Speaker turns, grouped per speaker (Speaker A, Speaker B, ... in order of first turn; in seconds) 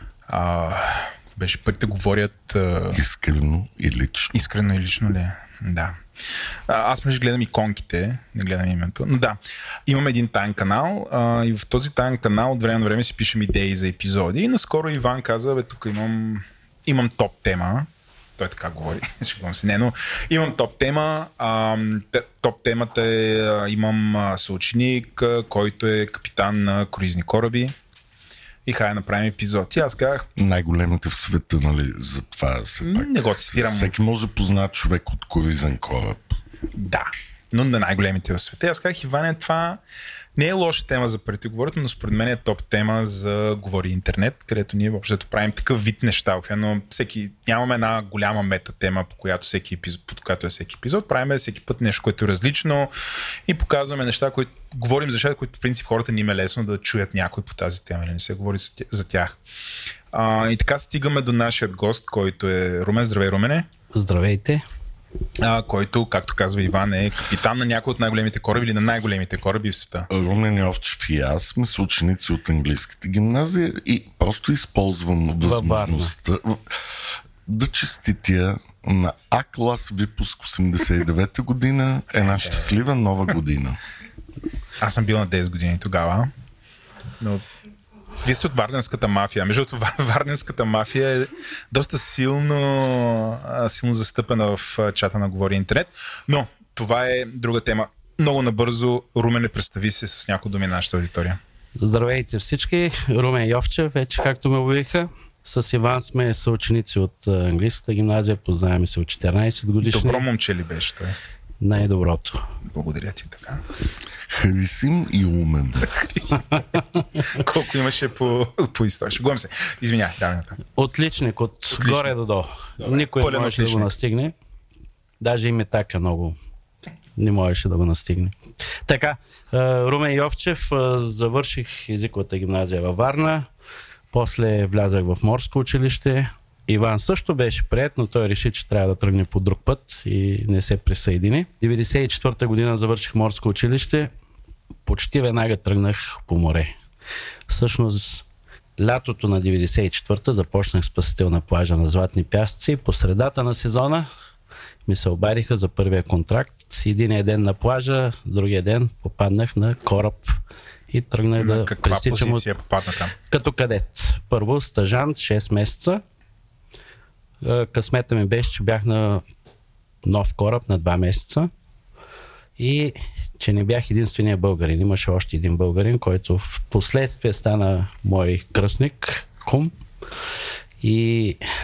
Speaker A: 0.3-3.0, 4.3-27.7, 28.6-30.3, 32.8-34.0, 36.7-39.8, 40.4-59.4, 60.1-63.7, 65.4-70.1, 84.8-86.3, 88.2-101.4, 109.8-111.2, 112.7-113.6, 115.9-120.6, 121.8-122.1, 122.8-123.9, 161.4-163.2
Speaker B: 2.9-4.5, 30.4-36.4, 70.1-76.8, 77.5-83.8, 114.3-116.0
Speaker C: 63.9-64.6, 75.4-76.1, 101.8-110.2, 111.6-112.4, 120.8-124.3, 125.2-126.4, 127.2-133.5, 134.1-144.1, 144.9-146.8, 147.5-148.2, 148.8-154.1, 154.9-160.4, 160.9-162.5, 163.3-166.0, 167.4-169.2, 170.0-171.5, 172.6-179.7, 180.8-181.4